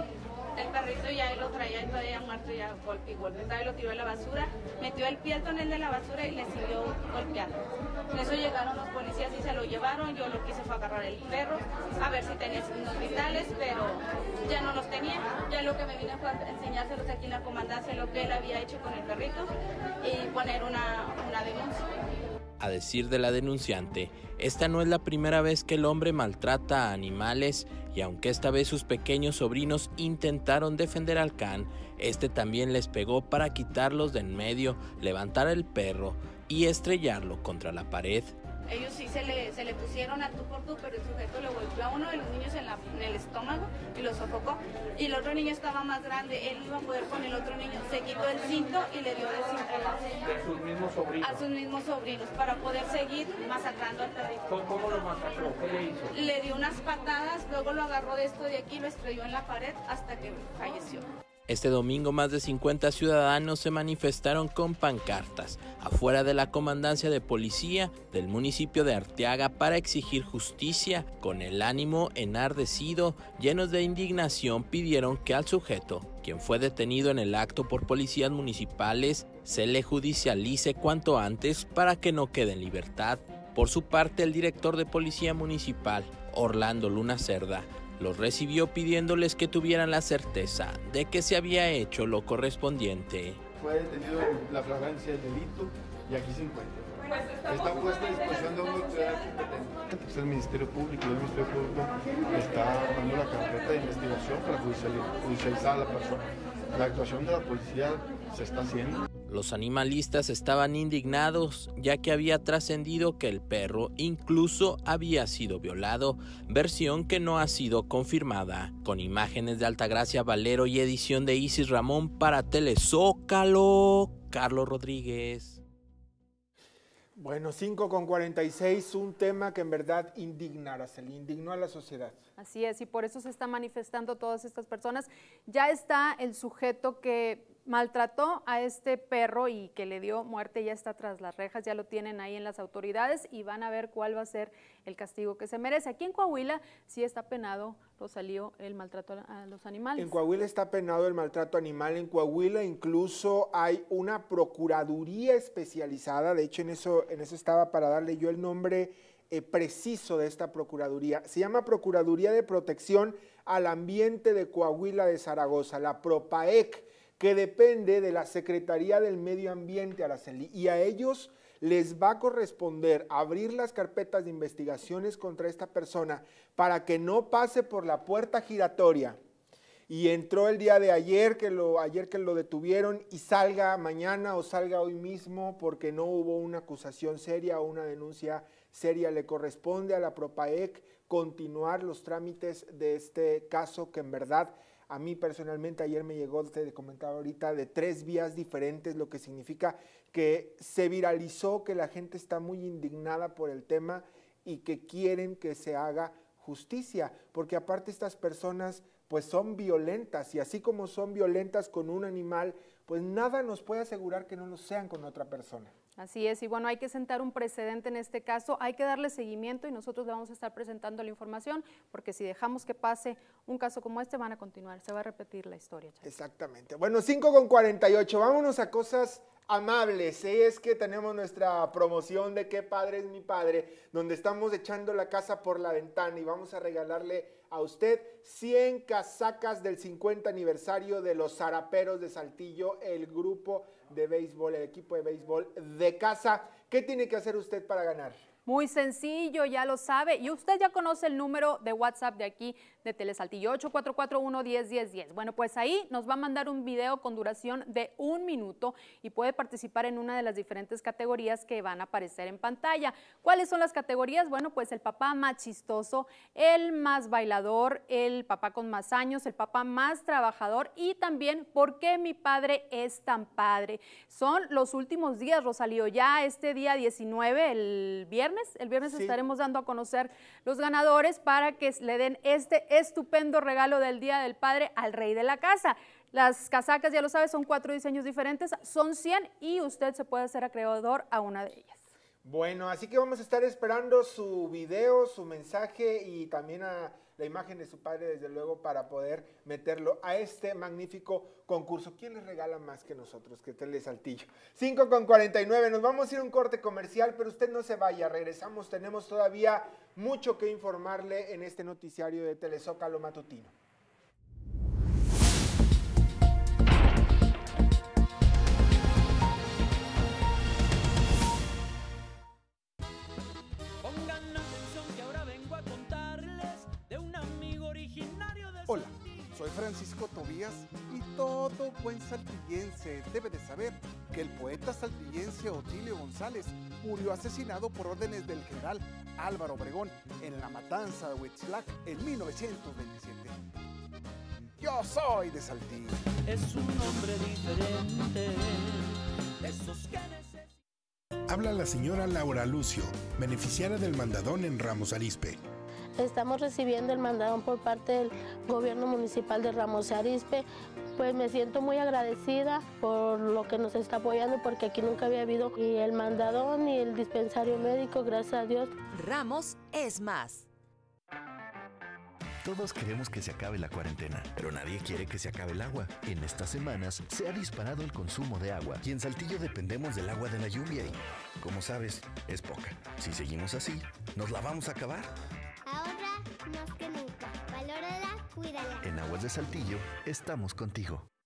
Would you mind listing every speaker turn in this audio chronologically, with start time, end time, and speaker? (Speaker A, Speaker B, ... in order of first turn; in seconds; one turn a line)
Speaker A: 0.5-21.9
Speaker B: 22.6-38.3
Speaker A: 38.7-61.1
Speaker B: 61.5-93.4
Speaker C: 93.6-96.9
Speaker C: 97.5-109.0
Speaker B: 109.2-125.6
Speaker D: 127.2-132.2
Speaker E: 132.4-150.2
Speaker D: 150.0-179.2
Speaker D: 179.9-215.7
Speaker E: 216.0-226.0
Speaker D: 226.0-248.2
Speaker E: 248.4-291.8
Speaker D: 278.8-279.2
Speaker D: 292.2-313.5
Speaker F: 323.8-328.6
Speaker G: 328.7-343.4
Speaker G: 344.6-346.0
Speaker F: 346.3-348.6
Speaker F: 349.4-350.3
Speaker H: 351.3-355.4
Speaker I: 356.0-368.7
Speaker J: 372.4-385.1
Speaker K: 385.6-388.9
Speaker J: 388.8-391.1